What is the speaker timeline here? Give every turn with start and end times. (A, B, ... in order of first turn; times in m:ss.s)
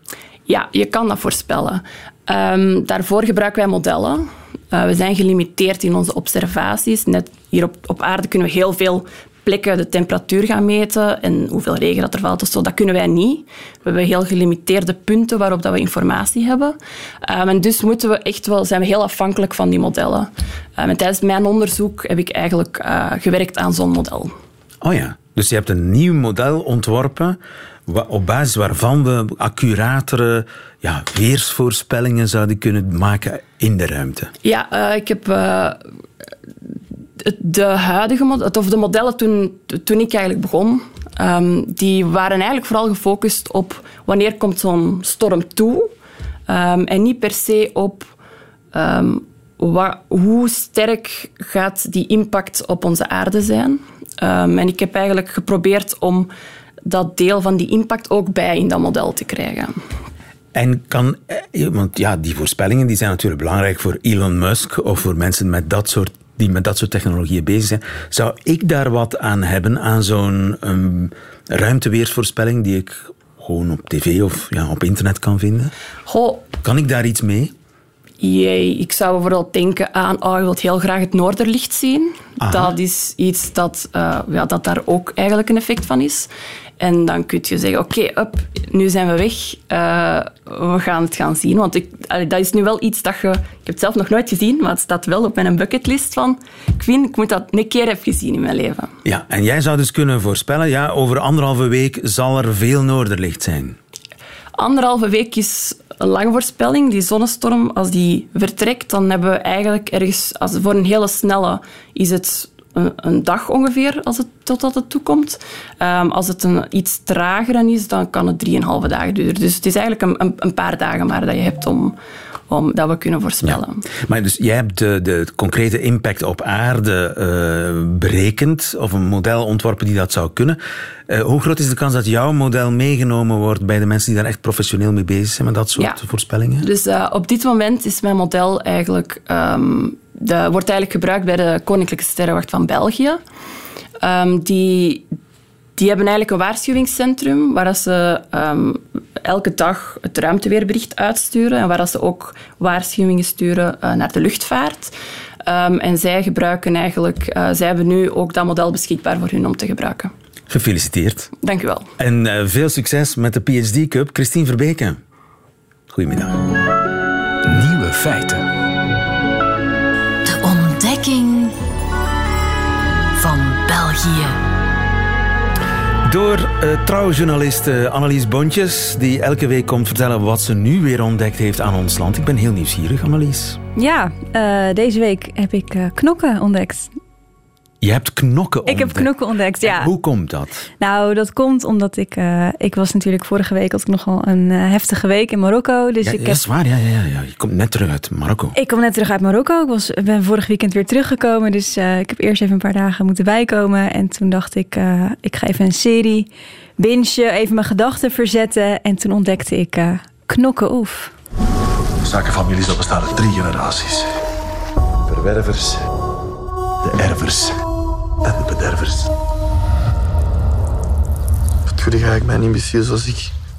0:00.5-0:24.3 A
0:24.8-0:34.3 B
0:34.4-0:35.8 A
0:37.2-0:45.9 A
0:46.5-0:48.1 A
0:48.7-0:56.3 A
0:56.8-0:59.8 A
1:00.5-1:15.7 B
1:16.1-1:16.5 A
1:16.6-1:17.5 B
1:18.2-1:38.9 A
1:22.4-1:22.8 B
1:39.0-1:43.8 B
1:44.6-2:02.0 A
2:02.5-2:03.9 A
2:03.4-2:16.7 B
2:16.6-2:23.2 A
2:24.0-2:25.0 A
2:25.8-2:34.9 A
2:35.4-2:40.1 A
2:40.5-2:41.3 B
2:41.4-2:41.9 A
2:42.0-2:45.0 B
2:45.9-2:46.4 B
2:47.5-2:48.5 C
2:50.2-2:51.6 D
2:53.2-2:54.4 D
2:56.1-3:03.6 B
3:03.8-3:06.9 E
3:07.8-3:10.7 B
3:08.7-3:09.9 E
3:10.8-3:16.4 E
3:16.0-3:18.6 B
3:18.6-3:26.3 E
3:26.8-3:31.1 E
3:32.0-3:34.1 C
3:35.1-3:35.8 C
3:36.8-3:37.6 C
3:38.2-3:39.1 C
3:41.8-3:43.2 C